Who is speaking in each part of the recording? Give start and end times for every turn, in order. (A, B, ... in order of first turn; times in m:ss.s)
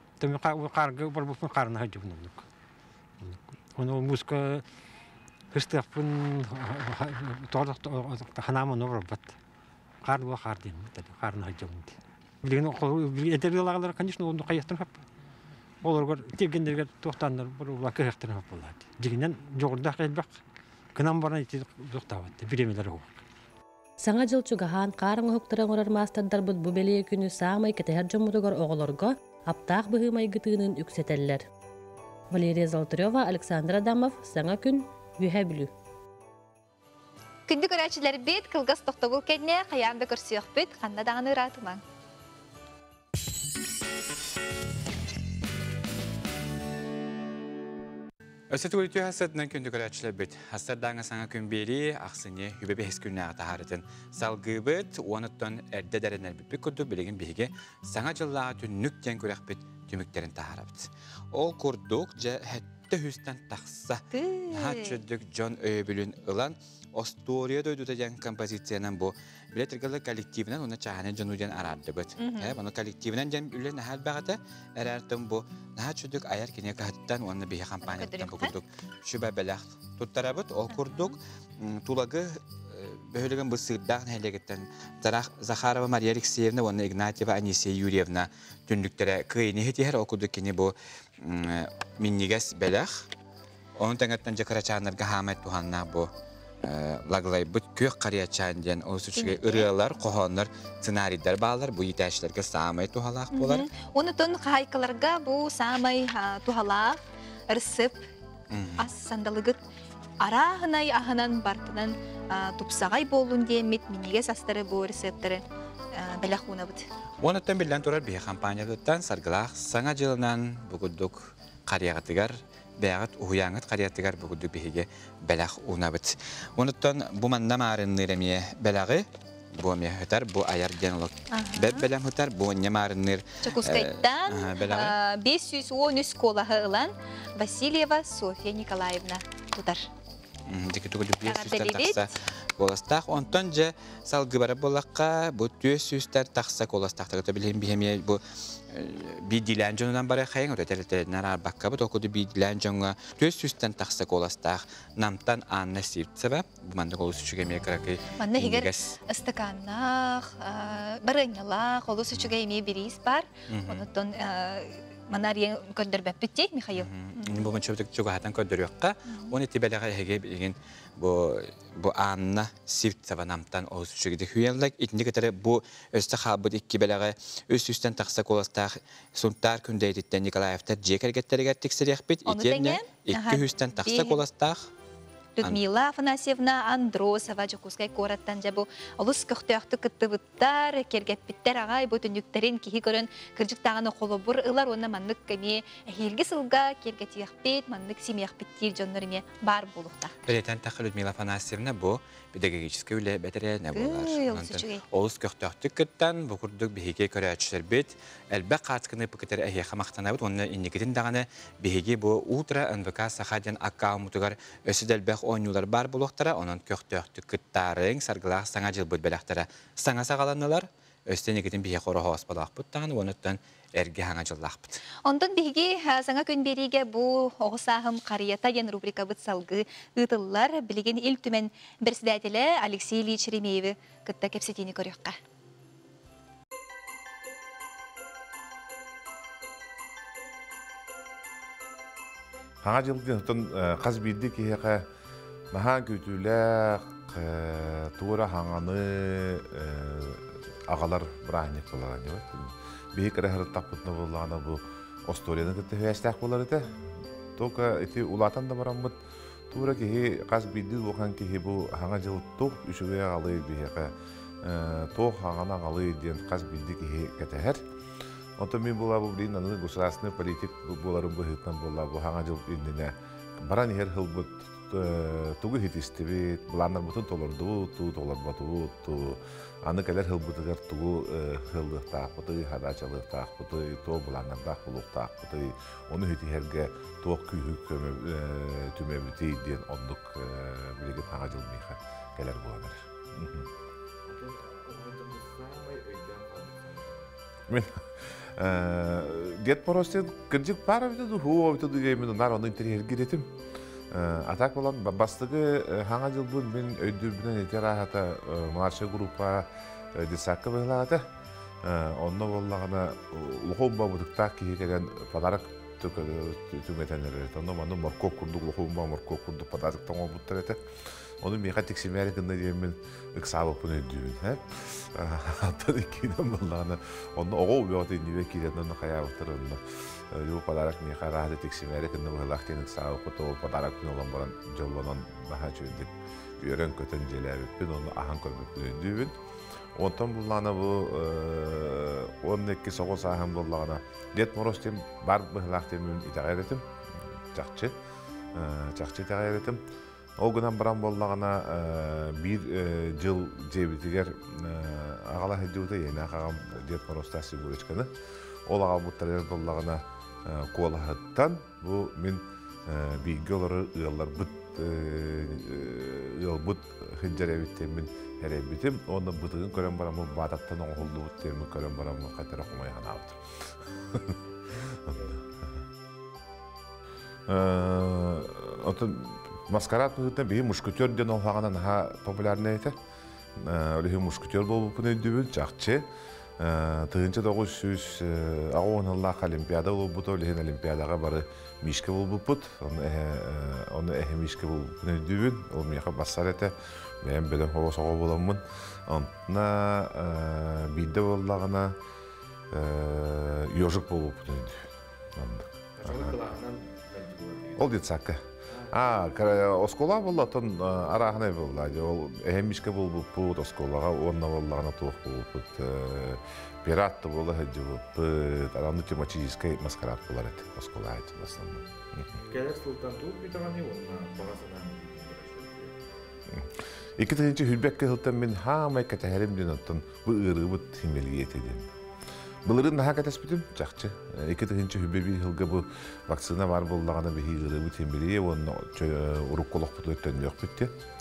0:00.2-0:02.4 A
0:03.2-0:04.6 A
0:05.5-0:09.3 A
0:10.0-0:15.0 A
0:15.8-0:20.4 A
0:20.9-0:23.2 A
0:24.0-0:31.4 B
0:32.3-0:35.7 B
0:37.5-0:41.8 C
0:48.5-1:33.1 D
1:04.1-1:05.0 C
1:12.2-1:12.6 C
1:17.8-1:18.5 C
1:20.7-1:21.1 C
1:33.8-1:36.1 D
1:36.6-1:43.7 D
1:39.2-1:39.7 C
1:43.3-1:48.0 C
1:48.5-1:48.9 D
1:48.8-1:49.6 C
1:50.2-1:55.4 C
1:55.9-1:56.8 C
1:57.2-2:14.9 D
2:11.3-2:11.8 C
2:13.4-2:19.8 C
2:20.5-2:39.0 D
2:21.3-2:22.0 C
2:38.2-2:47.4 C
2:43.5-2:43.8 D
2:46.8-3:04.7 D
3:02.3-3:04.2 C
3:05.4-3:20.1 C
3:20.3-3:44.8 D
3:23.7-3:24.8 C
3:45.0-3:55.2 C
4:02.6-4:04.8 E
4:05.5-4:16.6 E
4:17.4-4:19.0 E
4:19.5-4:27.6 E
4:28.4-4:53.5 E
4:54.1-4:57.1 F
4:57.5-5:03.3 E
5:03.9-5:11.0 E
5:11.6-5:20.6 E
5:21.2-5:39.1 E
5:39.8-5:47.7 E
5:48.3-5:49.6 E
5:50.2-5:57.9 E
5:58.5-6:14.1 E
6:17.3-6:22.8 E
6:23.4-6:25.9 E
6:26.4-6:41.7 E
6:42.5-6:46.1 E
6:45.8-6:47.8 F
6:47.6-7:02.1 E
6:48.5-6:49.0 F
7:02.3-7:05.7 F
7:06.3-7:11.7 E
7:12.4-7:20.7 E